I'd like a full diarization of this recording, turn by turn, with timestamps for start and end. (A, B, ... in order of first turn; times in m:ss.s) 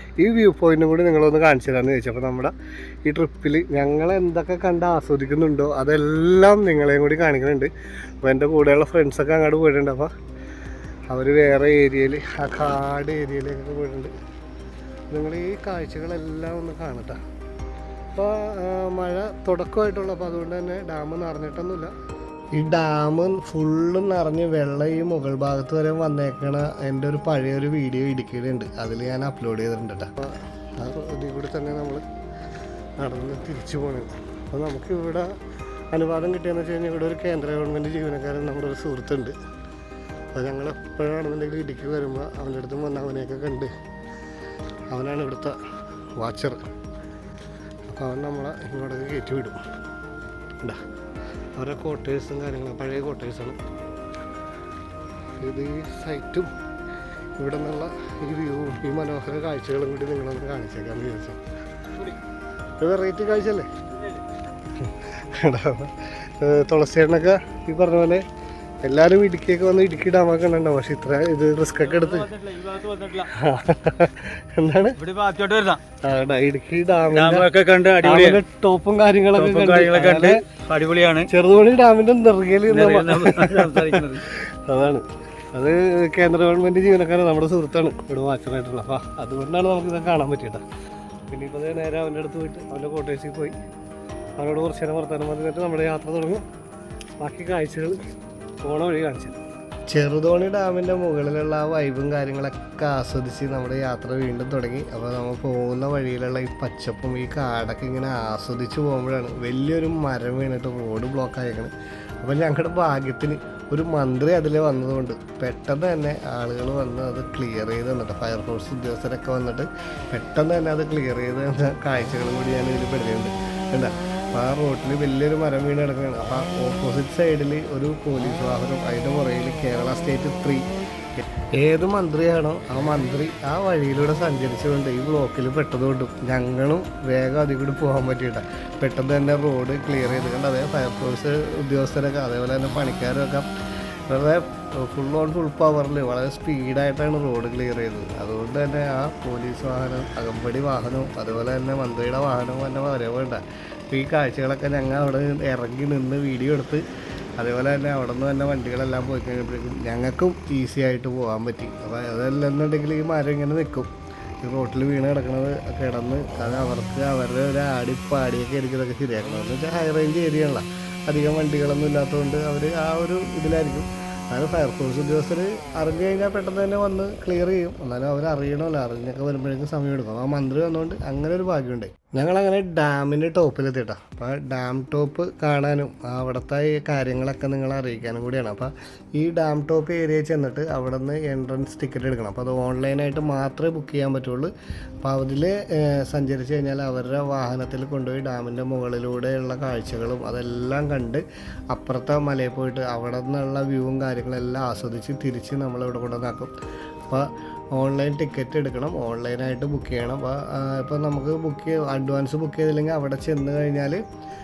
0:00.2-0:02.5 A
0:03.1-0:07.7 A
0:08.2-0:10.1 A
0:11.1-0:14.1 A
0:15.1-0:17.2 A
0:18.2-0:21.9 A
0:22.5-0:32.0 A
0:33.0-0:35.4 A
0:35.9-0:39.4 A
0:40.3-0:43.7 A
0:44.9-0:45.6 A
0:46.2-0:46.6 A
0:47.9-0:49.6 A
0:51.6-0:53.6 A
0:55.4-0:56.5 A
0:57.4-1:01.4 A
1:02.8-1:03.7 A
1:04.7-1:08.2 A
1:08.8-1:12.3 A
1:11.9-1:13.3 B
1:13.3-1:15.0 A
1:15.0-1:15.8 B
1:16.0-1:20.4 A
1:17.1-1:18.4 B
1:19.4-1:21.3 B
1:21.3-1:30.6 A
1:22.7-1:24.2 B
1:31.3-1:33.6 A
1:34.4-1:36.4 A
1:37.2-1:38.0 A
1:38.6-1:39.4 A
1:39.9-2:10.6 A
2:11.2-2:23.5 A
2:24.1-2:36.8 A
2:37.4-2:43.9 A
2:44.4-3:14.5 A
3:15.0-3:26.5 A
3:27.1-3:34.0 A